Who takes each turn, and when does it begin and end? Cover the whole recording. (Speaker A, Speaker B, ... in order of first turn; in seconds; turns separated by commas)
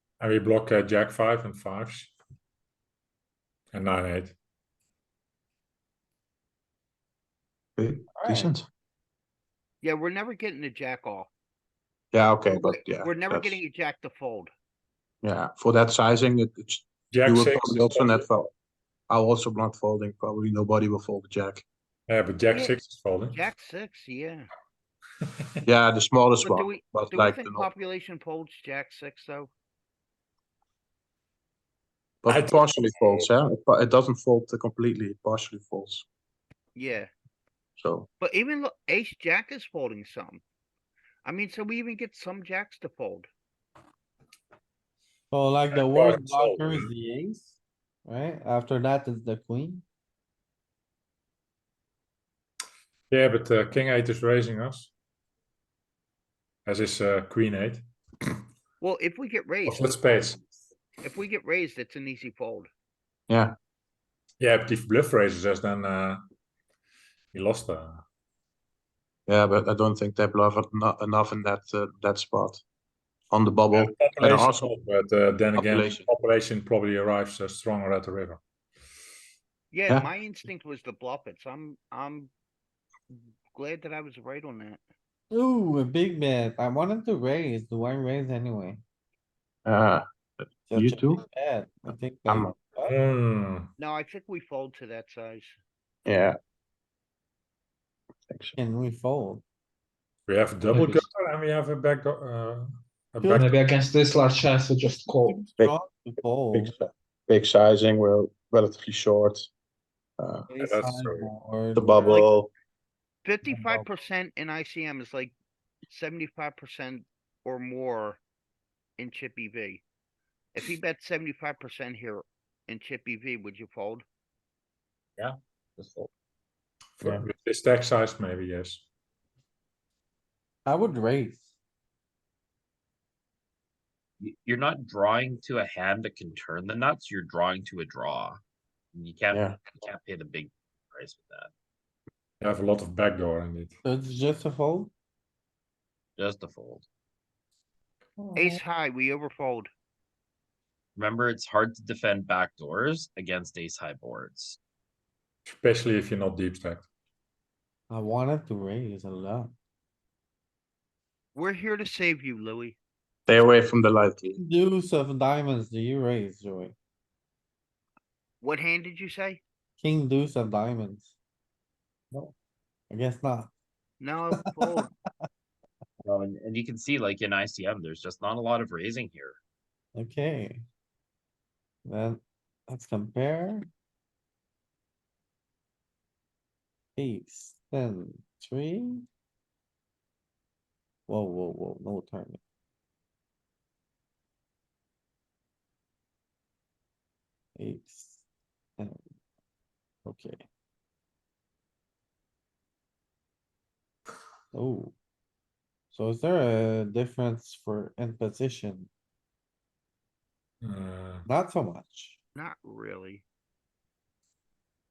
Speaker A: 0.2-2.1, Speaker A: 3.7-4.4, Speaker B: 7.8-8.7, Speaker C: 8.1-8.5, Speaker D: 9.8-11.3, Speaker B: 12.1-13.6, Speaker D: 12.5-14.5, Speaker B: 15.2-18.5, Speaker A: 17.1-18.3, Speaker B: 19.1-21.6, Speaker A: 22.1-23.4, Speaker D: 23.3-24.5, Speaker B: 25.6-27.7, Speaker D: 26.4-29.5, Speaker B: 32.2-36.0, Speaker A: 32.3-33.3, Speaker D: 36.8-37.1, Speaker B: 37.8-38.1, Speaker D: 38.2-40.4, Speaker D: 41.2-43.3, Speaker C: 45.3-49.9, Speaker A: 45.7-46.9, Speaker A: 53.1-54.9, Speaker A: 56.6-57.9, Speaker D: 58.8-60.4, Speaker A: 59.6-60.4, Speaker D: 61.0-62.7, Speaker B: 63.3-63.5, Speaker A: 64.4-66.2, Speaker A: 67.3-68.0, Speaker B: 69.3-72.6, Speaker B: 73.3-74.7, Speaker A: 73.7-78.4, Speaker B: 75.5-76.0, Speaker D: 79.7-82.3, Speaker D: 83.1-84.8, Speaker C: 85.3-88.8, Speaker B: 89.7-91.2, Speaker C: 90.7-93.0, Speaker B: 91.9-92.6, Speaker A: 92.9-93.7, Speaker D: 93.8-95.6, Speaker B: 96.1-96.4, Speaker B: 98.3-98.6, Speaker C: 98.6-99.4, Speaker A: 100.3-103.6, Speaker E: 103.2-105.5, Speaker C: 105.6-106.7, Speaker B: 106.5-109.5, Speaker B: 110.2-110.5, Speaker C: 110.5-112.3, Speaker A: 110.5-111.3, Speaker B: 111.8-112.5, Speaker D: 113.2-115.3, Speaker C: 113.5-113.8, Speaker D: 115.9-118.2, Speaker D: 119.0-119.8, Speaker D: 120.5-124.0, Speaker F: 125.8-126.1, Speaker A: 127.0-128.8, Speaker C: 130.7-131.5, Speaker F: 134.2-138.4, Speaker F: 138.9-141.5, Speaker B: 139.3-139.6, Speaker A: 142.4-143.7, Speaker C: 143.8-144.9, Speaker F: 146.2-146.8, Speaker C: 148.2-148.6, Speaker D: 148.3-149.7, Speaker F: 151.0-154.6, Speaker A: 155.4-156.9, Speaker C: 157.9-159.5, Speaker D: 161.3-162.8, Speaker B: 163.3-164.4, Speaker C: 164.4-166.8, Speaker D: 168.4-169.4, Speaker C: 169.8-171.1, Speaker C: 172.9-173.5, Speaker D: 174.0-174.9, Speaker C: 174.4-174.8, Speaker F: 176.0-179.4, Speaker C: 179.9-180.6, Speaker C: 181.9-183.7, Speaker C: 187.0-189.1, Speaker C: 191.1-192.4, Speaker C: 197.6-198.2, Speaker C: 198.8-199.1, Speaker C: 200.1-200.5, Speaker C: 204.5-204.9, Speaker C: 205.9-208.9, Speaker A: 210.6-211.2, Speaker C: 211.3-212.2, Speaker D: 212.3-213.2